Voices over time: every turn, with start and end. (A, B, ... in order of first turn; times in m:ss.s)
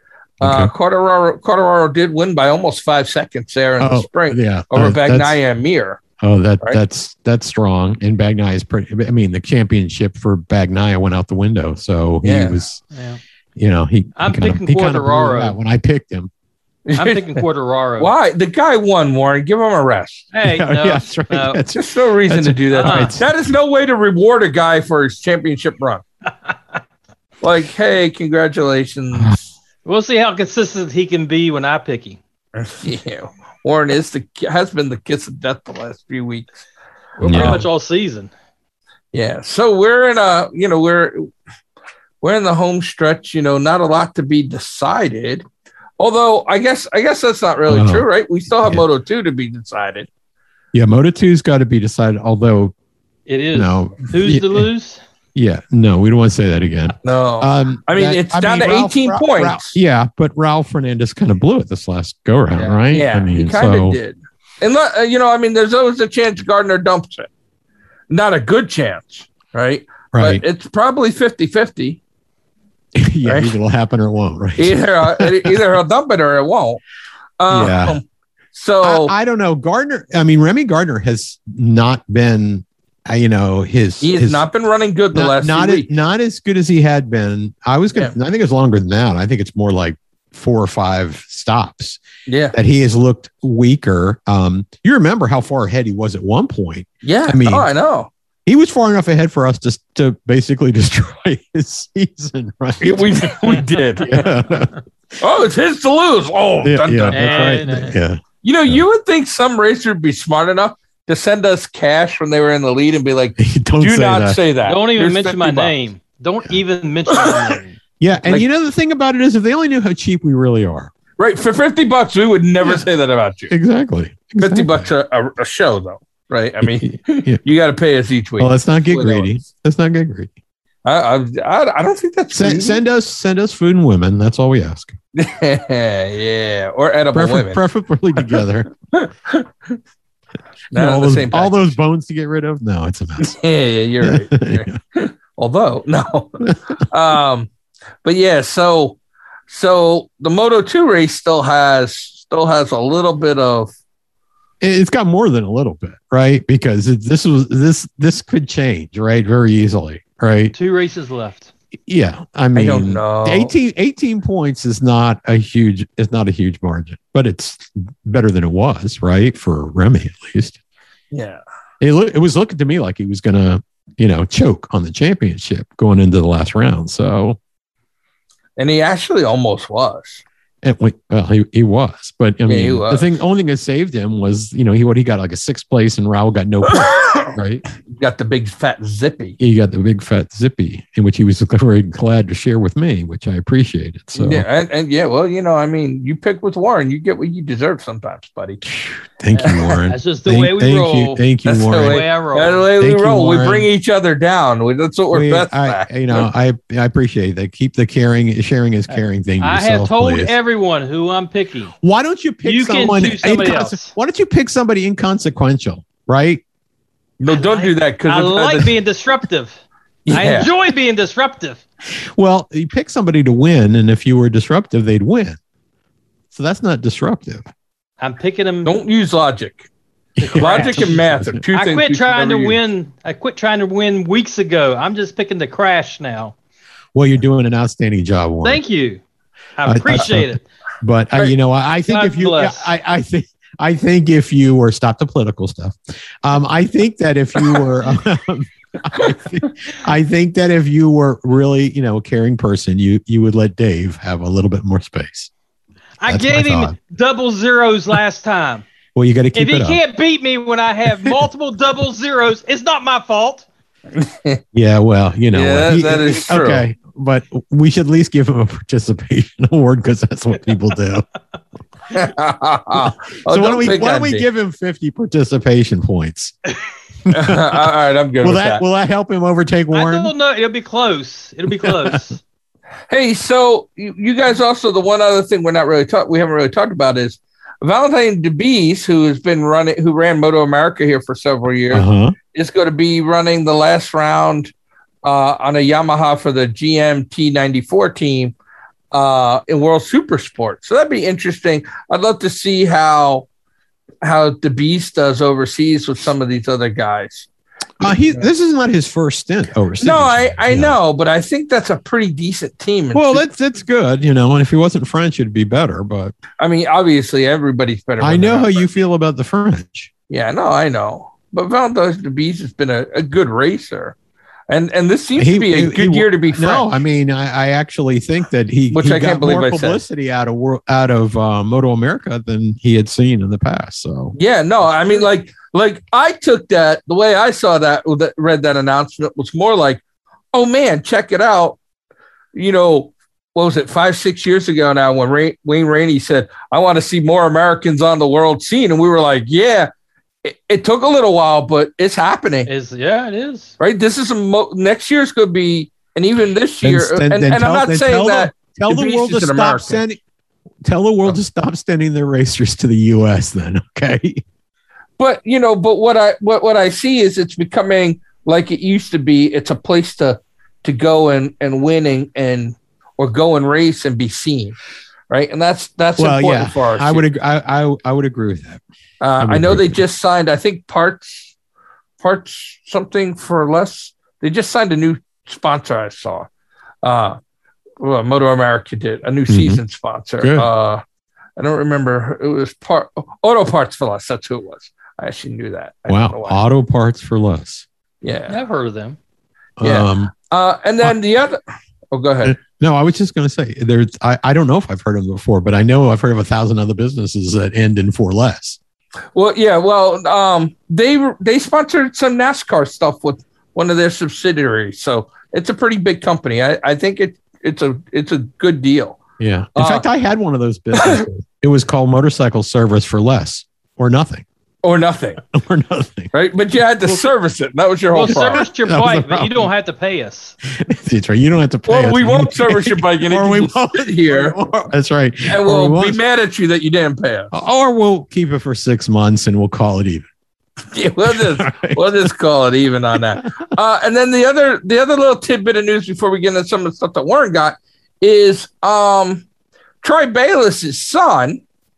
0:00.4-0:00.7 A
0:00.4-0:06.0 B
0:03.8-0:05.4 A
0:06.2-0:12.8 A
0:12.2-0:12.6 B
0:12.9-0:13.2 C
0:13.6-0:16.3 A
0:14.2-0:15.6 C
0:16.8-0:17.4 B
0:17.0-0:18.1 C
0:18.0-0:20.3 B
0:20.3-0:21.6 C
0:20.4-0:23.3 A
0:21.7-0:26.0 B
0:22.7-0:23.1 C
0:27.4-0:29.4 B
0:29.8-0:32.2 C
0:32.6-0:36.6 B
0:37.2-0:38.3 C
0:37.2-0:37.6 A
0:37.2-0:37.6 B
0:39.1-0:41.3 B
0:42.2-0:45.4 B
0:46.0-0:50.1 B
0:47.7-0:48.1 A
0:50.7-0:52.7 A
0:53.3-0:55.0 C
0:53.5-0:54.7 A
0:55.3-1:04.0 A
0:57.0-0:59.8 B
1:02.5-1:02.8 C
1:02.9-1:07.3 B
1:08.1-1:12.0 B
1:10.1-1:10.4 A
1:13.0-1:15.6 A
1:13.2-1:13.6 B
1:14.6-1:16.8 B
1:17.4-1:18.0 B
1:17.5-1:18.0 A
1:18.5-1:19.1 B
1:18.8-1:24.4 A
1:24.0-1:25.9 B
1:25.1-1:32.0 A
1:32.3-1:32.6 B
1:32.5-1:37.7 A
1:37.0-1:38.1 B
1:38.4-1:44.7 A
1:42.8-1:44.3 B
1:45.2-1:47.6 B
1:46.6-1:48.8 A
1:47.1-1:48.0 C
1:48.4-1:55.8 B
1:53.4-1:54.4 A
1:54.6-1:57.8 C
1:57.1-1:57.5 B
1:58.0-2:00.9 A
2:01.2-2:03.5 B
2:02.6-2:02.8 A
2:03.5-2:04.8 A
2:04.4-2:09.3 B
2:06.6-2:07.4 A
2:08.4-2:10.3 A
2:10.8-2:12.8 B
2:12.3-2:14.9 A
2:15.2-2:17.6 B
2:17.1-2:18.7 A
2:18.2-2:19.8 B
2:20.7-2:21.7 B
2:20.7-2:23.4 A
2:23.2-2:27.5 B
2:24.0-2:24.8 A
2:28.0-2:29.0 B
2:29.5-2:33.7 B
2:34.6-2:40.5 A
2:40.5-2:41.5 C
2:41.9-2:50.6 A
2:42.5-2:43.5 B
2:51.1-2:51.4 B
2:51.8-2:57.4 A
2:58.6-3:00.2 B
3:00.6-3:07.6 A
3:02.4-3:03.1 B
3:06.7-3:09.4 B
3:09.4-3:14.4 A
3:14.1-3:18.6 B
3:18.6-3:22.0 A
3:19.3-3:21.2 C
3:21.4-3:26.3 B
3:21.8-3:22.7 C
3:22.8-3:23.7 A
3:25.1-3:30.3 A
3:28.9-3:31.7 C
3:31.8-3:36.4 A
3:32.4-3:33.9 C
3:37.2-3:38.7 B
3:37.3-3:41.6 C
3:40.0-3:40.5 B
3:42.0-3:45.4 A
3:46.3-3:47.5 A
3:48.0-3:48.7 C
3:48.6-3:49.7 B
3:50.2-3:51.4 A
3:50.2-3:51.0 C
3:50.3-3:52.6 B
3:51.5-3:56.3 C
3:56.9-3:58.6 A
3:58.4-3:59.0 C
3:59.6-4:00.4 C
3:59.6-4:15.3 A
4:01.9-4:02.7 C
4:16.0-4:18.6 C
4:16.0-4:16.7 A
4:18.9-4:19.8 A
4:19.3-4:23.4 C
4:23.9-4:24.4 B
4:24.5-4:31.0 A
4:25.3-4:26.6 B
4:31.9-4:34.2 B
4:32.7-4:36.3 A
4:37.0-4:37.7 A
4:37.1-4:38.6 B
4:38.2-4:40.1 A
4:39.7-4:42.2 C
4:41.5-4:42.0 A
4:42.9-4:54.5 B
4:51.7-4:52.2 A
4:55.0-4:58.3 B
4:58.9-5:03.3 B
5:04.0-5:07.3 B
5:07.8-5:10.8 A
5:07.8-5:08.2 B
5:09.8-5:13.2 B
5:12.9-5:16.2 A
5:16.4-5:18.7 B
5:18.0-5:19.9 A
5:20.1-5:24.0 B
5:24.5-5:26.7 B
5:25.2-5:34.2 A
5:28.7-5:29.8 B
5:34.2-5:41.6 B
5:42.3-5:49.7 B
5:50.2-5:52.5 B
5:52.5-5:53.5 C
5:53.6-5:59.8 B
5:56.6-6:00.0 A
6:00.6-6:04.2 A
6:05.0-6:14.6 B
6:15.1-6:17.0 B
6:16.0-6:18.6 A
6:19.0-6:21.3 B
6:19.2-6:19.8 A
6:22.0-6:26.3 B
6:26.8-6:27.2 B
6:27.8-6:30.8 B
6:29.3-6:29.6 A
6:30.2-6:30.5 A
6:31.4-6:36.4 B
6:35.9-6:37.6 A
6:38.0-6:38.4 B
6:38.3-6:39.0 C
6:39.6-6:40.1 A
6:39.6-6:41.4 B
6:41.9-6:42.4 B
6:42.2-6:48.6 A
6:49.1-6:59.0 B
6:59.2-7:04.2 A
6:59.6-6:59.8 B
7:00.8-7:01.0 B
7:04.6-7:05.2 B
7:05.3-7:06.1 A
7:06.1-7:08.4 B
7:07.9-7:10.4 C
7:08.0-7:09.5 A
7:10.5-7:16.0 A
7:11.7-7:14.4 B
7:15.2-7:17.3 B
7:17.3-7:20.1 A
7:20.7-7:29.2 B
7:21.0-7:22.1 A
7:29.8-7:31.4 B